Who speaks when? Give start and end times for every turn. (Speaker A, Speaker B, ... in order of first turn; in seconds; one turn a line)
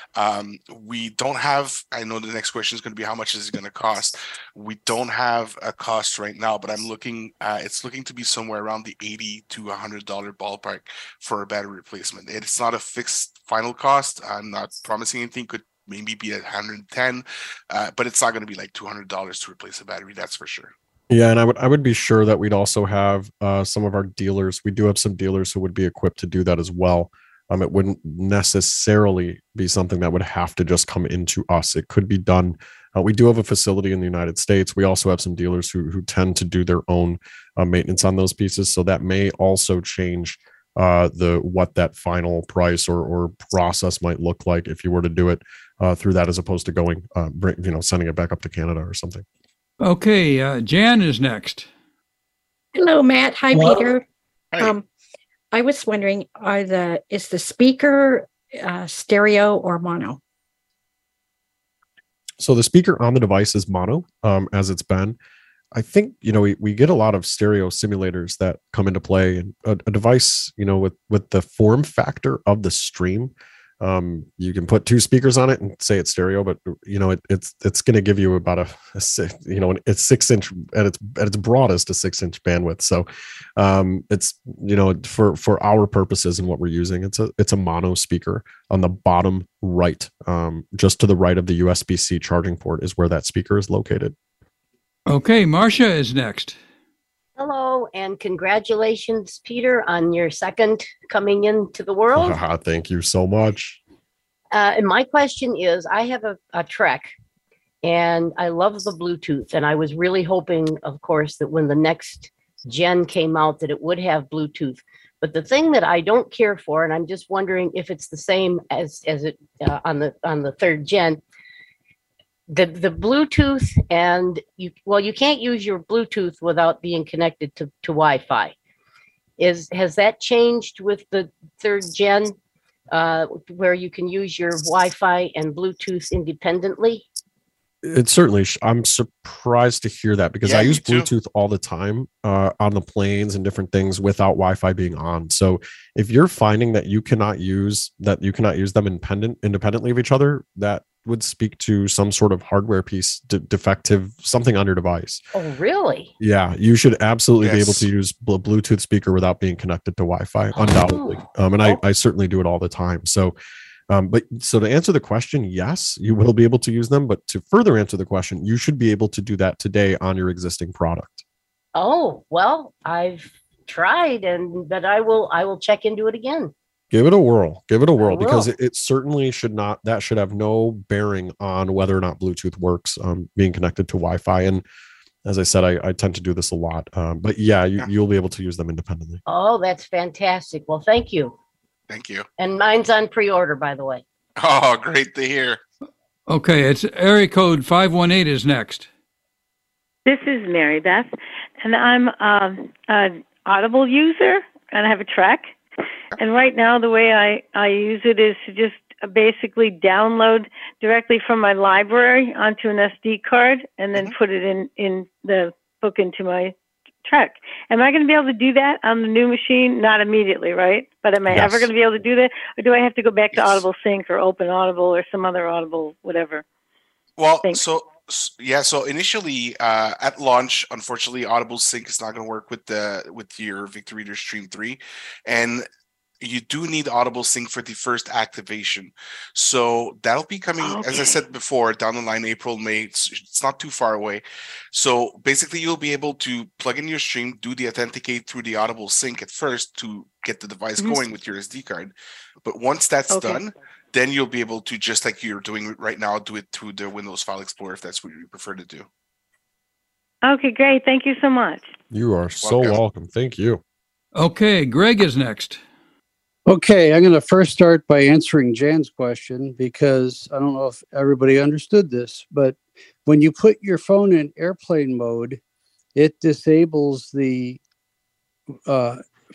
Speaker A: 0.1-20.7
Speaker B: 21.1-49.2
Speaker C: 49.8-51.7
Speaker D: 52.7-54.0
Speaker D: 54.6-54.8
Speaker D: 55.5-60.2
Speaker B: 62.4-65.2
Speaker B: 65.7-94.1
Speaker C: 95.1-96.6
Speaker E: 97.4-102.4
Speaker B: 102.1-103.8
Speaker E: 104.5-107.1
Speaker E: 107.8-121.2
Speaker E: 122.5-128.5
Speaker E: 129.4-132.3
Speaker E: 132.9-137.1
Speaker B: 137.8-155.2
Speaker A: 140.4-141.1
Speaker E: 155.3-156.1
Speaker B: 156.2-163.3
Speaker A: 157.4-157.9
Speaker E: 160.5-161.8
Speaker B: 163.9-171.2
Speaker E: 171.7-176.5
Speaker B: 176.9-184.6
Speaker E: 178.0-178.5
Speaker B: 185.2-189.2
Speaker E: 189.2-191.3
Speaker A: 191.9-192.2
Speaker E: 192.4-194.0
Speaker A: 194.4-195.6
Speaker C: 196.3-198.9
Speaker F: 200.1-205.5
Speaker F: 206.2-226.4
Speaker B: 221.3-221.7
Speaker A: 223.3-223.6
Speaker A: 227.2-235.7
Speaker A: 236.2-244.2
Speaker F: 240.7-241.1
Speaker A: 244.7-251.9
Speaker A: 252.4-258.9
Speaker F: 253.1-253.4
Speaker F: 260.2-261.7
Speaker B: 261.9-263.6
Speaker A: 262.4-262.8
Speaker C: 264.1-265.6
Speaker G: 266.4-275.4
Speaker G: 275.9-277.6
Speaker G: 278.7-279.0